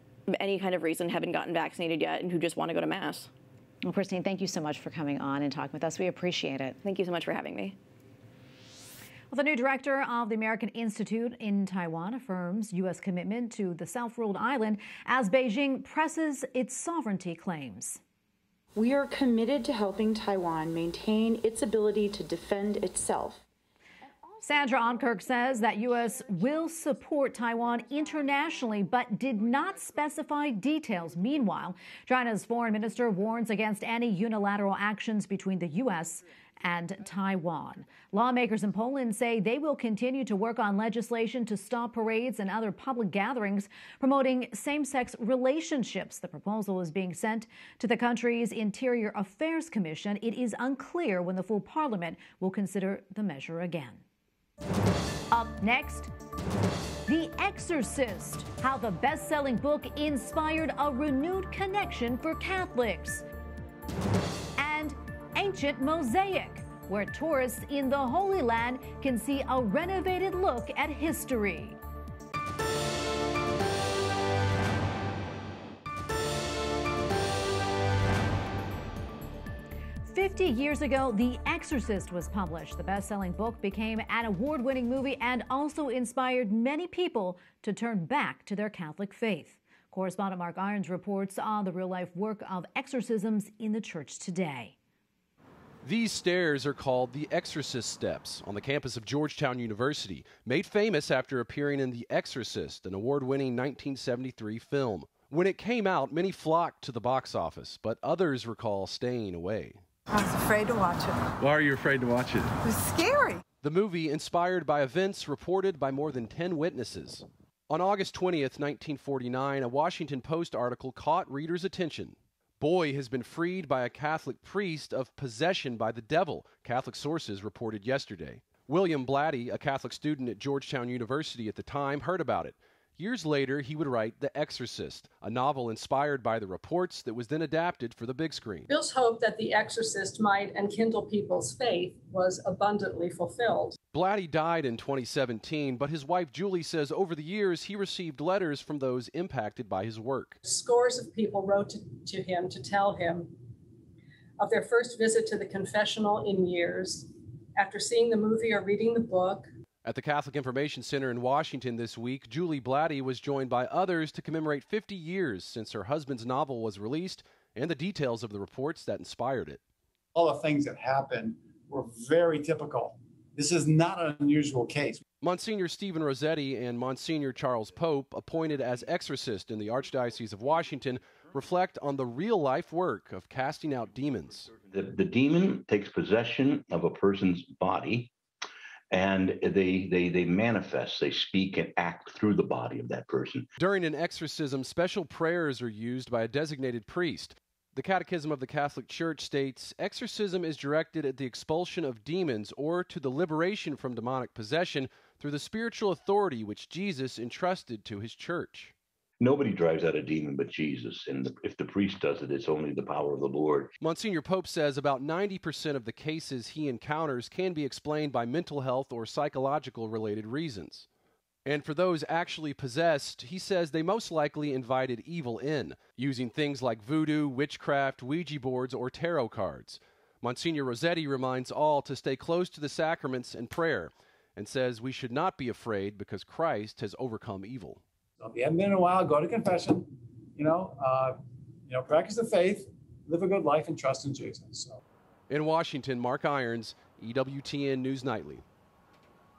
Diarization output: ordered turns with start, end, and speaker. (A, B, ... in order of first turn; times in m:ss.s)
0:00.3-0:03.3 A
0:03.8-0:06.8 B
0:06.8-0:07.8 A
0:09.3-0:18.0 B
0:18.7-0:23.4 C
0:24.4-0:54.0 B
0:55.3-0:56.1 B
0:57.1-1:03.2 B
1:04.6-1:11.8 B
1:20.1-1:34.7 B
1:35.8-1:49.8 D
1:50.1-1:51.2 E
1:51.4-1:52.5 D
1:52.6-1:53.4 E
1:53.6-2:18.7 D
2:18.7-2:23.8 F
2:23.9-2:30.4 D
2:30.4-2:33.4 F
2:34.4-2:39.5 F
2:39.8-2:49.6 D
2:50.1-2:55.0 G
2:55.2-3:04.5 D
3:04.7-3:08.1 H
3:08.9-3:13.5 H
3:13.6-3:28.7 D
3:29.2-3:33.7 H
3:33.8-3:40.8 D
3:41.4-3:57.8 D
3:58.2-4:04.8 G
4:05.3-4:08.4 D